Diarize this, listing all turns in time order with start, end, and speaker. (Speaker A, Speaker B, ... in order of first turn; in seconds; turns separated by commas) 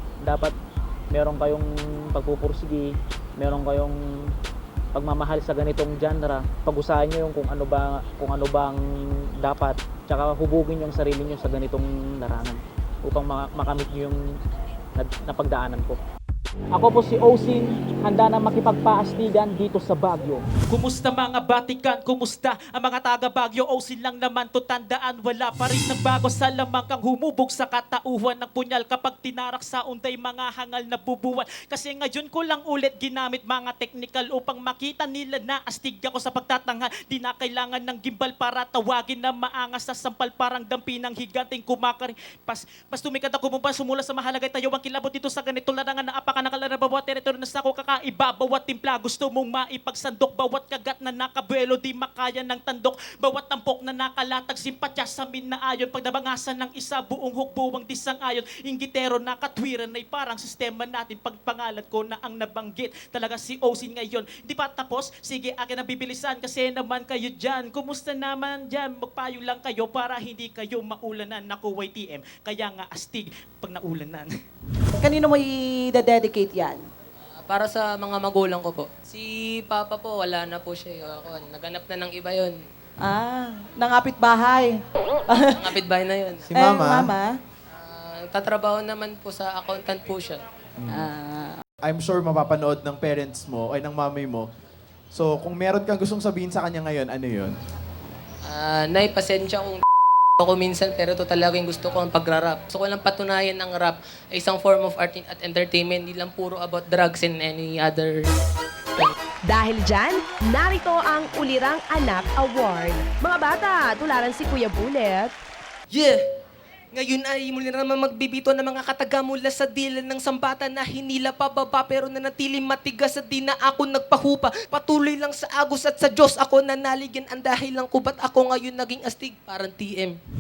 Speaker A: 0.2-0.5, Speaker A: 1.1-4.0, Speaker A: 4.9-8.8, Speaker A: 9.4-14.2, Speaker A: 14.9-16.0, Speaker A: 16.7-20.4, Speaker B: 20.7-74.3, Speaker C: 75.0-76.8, Speaker D: 77.4-82.6, Speaker C: 83.0-84.8, Speaker C: 85.3-85.7, Speaker D: 85.6-86.5, Speaker C: 86.5-87.3, Speaker E: 86.5-87.1, Speaker D: 87.8-90.4, Speaker E: 90.8-91.1, Speaker C: 90.9-91.2, Speaker E: 91.8-94.5, Speaker E: 95.1-97.5, Speaker D: 98.5-99.8, Speaker D: 100.4-108.3, Speaker F: 109.5-115.3, Speaker D: 115.9-116.2, Speaker D: 116.9-130.2